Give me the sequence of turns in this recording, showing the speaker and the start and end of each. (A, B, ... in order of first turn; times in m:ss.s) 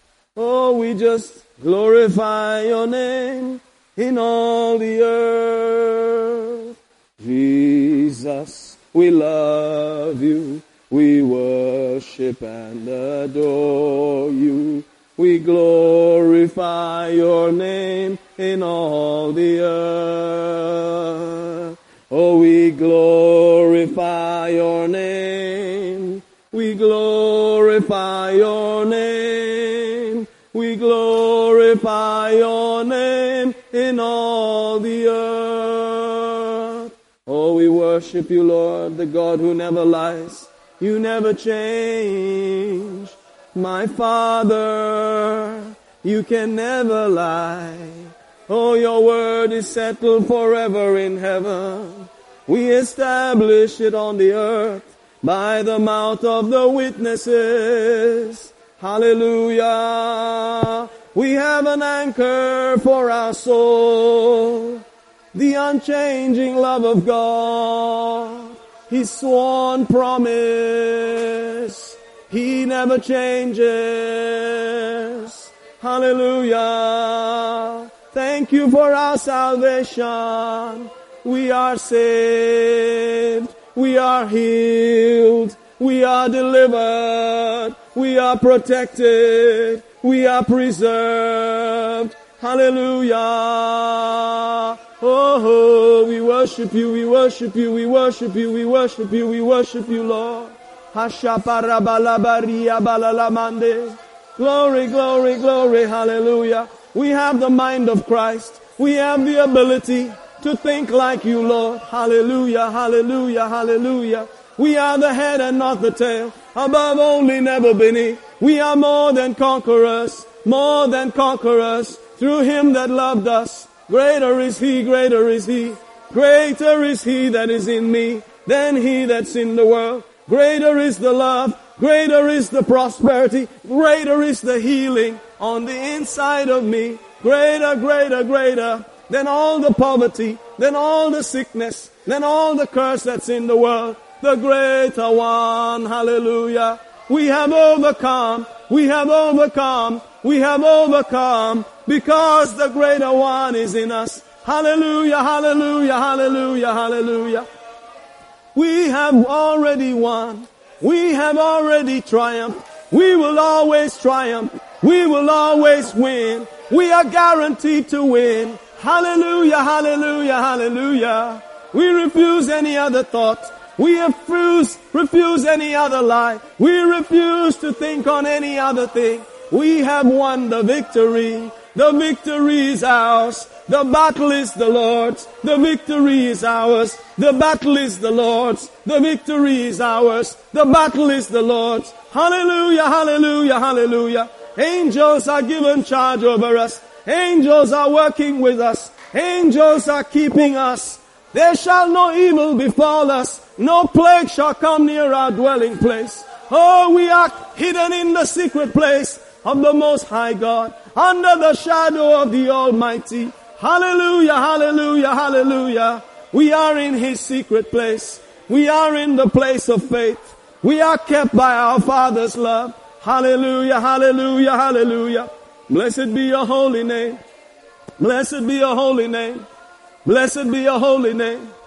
0:00.4-1:04.8 A
1:05.3-2:37.4 A
2:38.5-3:47.2 A
3:48.0-3:49.4 A
3:50.0-3:51.5 A